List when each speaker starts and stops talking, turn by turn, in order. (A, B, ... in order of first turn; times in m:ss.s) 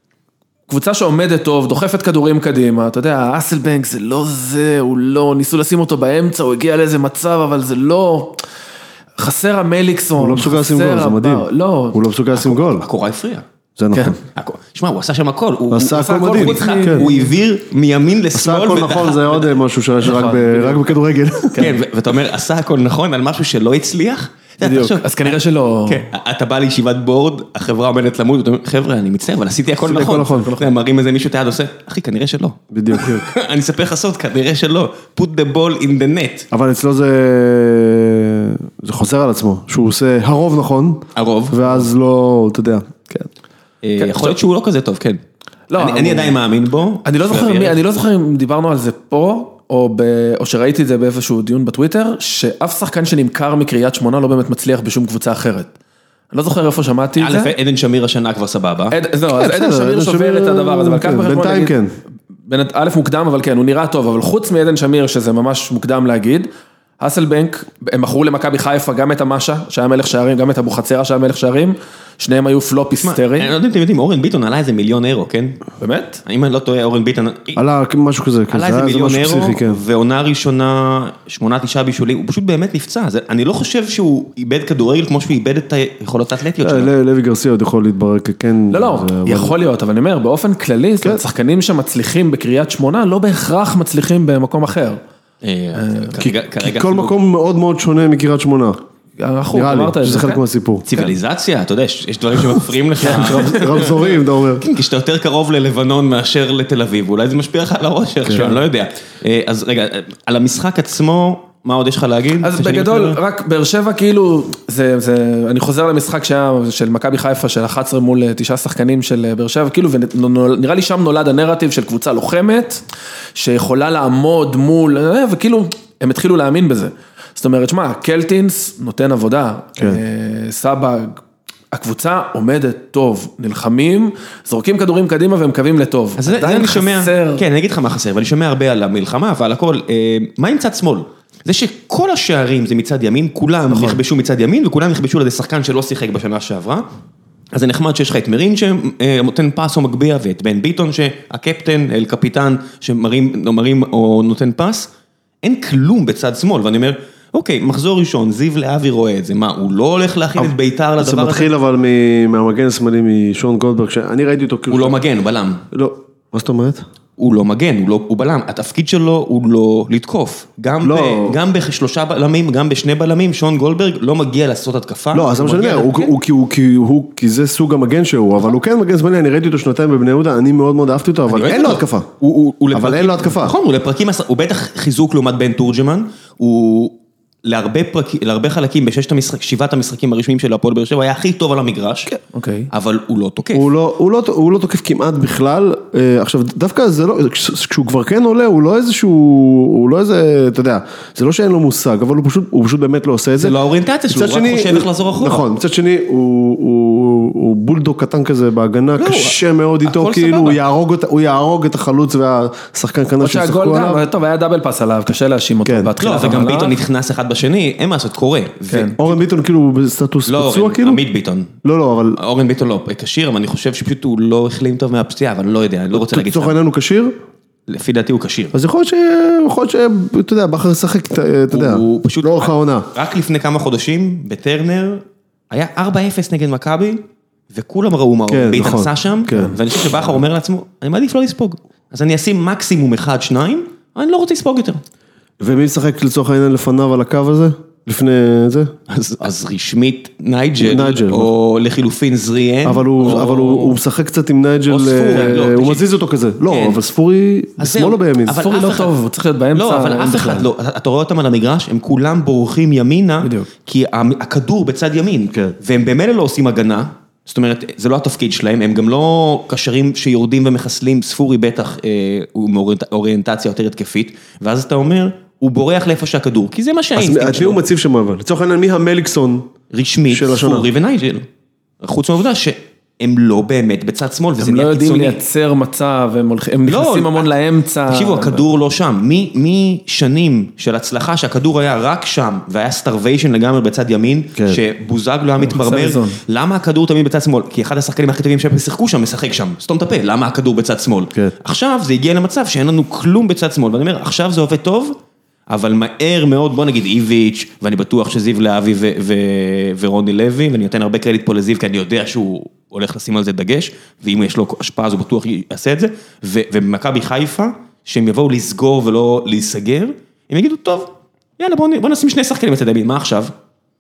0:00.7-0:08.4 A
0:09.2-0:12.0 A
0:10.2-0:12.8 B
0:12.3-0:13.5 C
0:13.8-0:14.2 B
0:14.3-0:19.6 C
0:15.7-0:17.1 B
0:15.9-0:17.2 A
0:18.3-0:21.8 B
0:20.0-0:20.9 A
0:21.5-0:21.8 A
0:21.6-0:36.5 C
0:24.6-0:26.0 A
0:29.8-0:30.7 B
0:32.7-0:33.2 B
0:36.5-0:43.3 B
0:41.2-0:41.9 C
0:43.8-0:45.2 C
0:44.0-0:44.3 A
0:45.7-0:46.4 A
0:45.8-0:47.8 C
0:47.0-0:55.7 A
0:56.3-0:57.5 A
0:57.2-0:59.0 C
0:58.9-1:01.8 A
0:59.3-1:01.9 B
1:02.5-1:06.5 A
1:07.0-1:13.5 A
1:13.0-1:15.6 C
1:15.8-1:16.2 A
1:16.3-1:17.6 C
1:17.6-1:19.8 B
1:18.5-1:26.9 C
1:26.6-1:29.6 B
1:28.7-1:35.0 A
1:35.4-1:37.1 C
1:35.8-1:36.2 A
1:36.2-1:38.8 B
1:39.2-1:40.4 A
1:39.5-1:40.9 B
1:40.9-1:53.2 C
1:43.0-1:44.6 B
1:43.2-1:43.4 A
1:48.3-1:48.6 B
1:52.4-2:02.8 A
2:03.4-2:11.2 A
2:11.7-2:17.4 A
2:16.2-2:26.8 C
2:23.7-2:24.0 A
2:27.5-2:34.9 C
2:35.4-2:41.5 C
2:40.4-2:45.0 B
2:44.7-2:45.6 C
2:45.7-2:46.8 B
2:47.2-2:56.1 C
2:50.8-2:51.4 B
2:55.1-3:02.1 B
3:01.3-3:12.1 C
3:02.7-3:03.6 B
3:12.1-3:12.7 A
3:12.7-3:13.7 C
3:13.5-3:23.6 B
3:23.4-3:25.5 C
3:24.1-3:34.1 B
3:29.0-3:30.6 C
3:33.2-3:36.8 A
3:35.6-3:35.9 B
3:36.0-3:39.1 C
3:38.7-3:39.0 A
3:39.0-3:41.0 B
3:40.3-3:41.6 C
3:41.6-3:42.2 B
3:42.2-3:46.6 C
3:45.9-3:47.1 B
3:47.7-3:48.5 C
3:48.5-3:52.9 B
3:51.5-4:04.8 C
3:58.3-3:59.6 B
4:05.4-4:08.7 B
4:08.9-4:13.8 C
4:10.6-4:11.3 B
4:12.6-4:18.4 B
4:14.7-4:15.9 C
4:16.5-4:16.8 C
4:17.6-4:18.9 C
4:18.3-4:20.5 A
4:19.6-4:37.6 C
4:23.2-4:23.5 A
4:37.0-4:39.5 B
4:39.7-4:41.3 C
4:40.1-4:40.7 B
4:41.8-4:45.2 C
4:44.4-4:48.4 A
4:46.7-4:47.3 C
4:47.9-5:05.0 C
4:55.4-4:56.2 A
5:05.5-5:23.3 C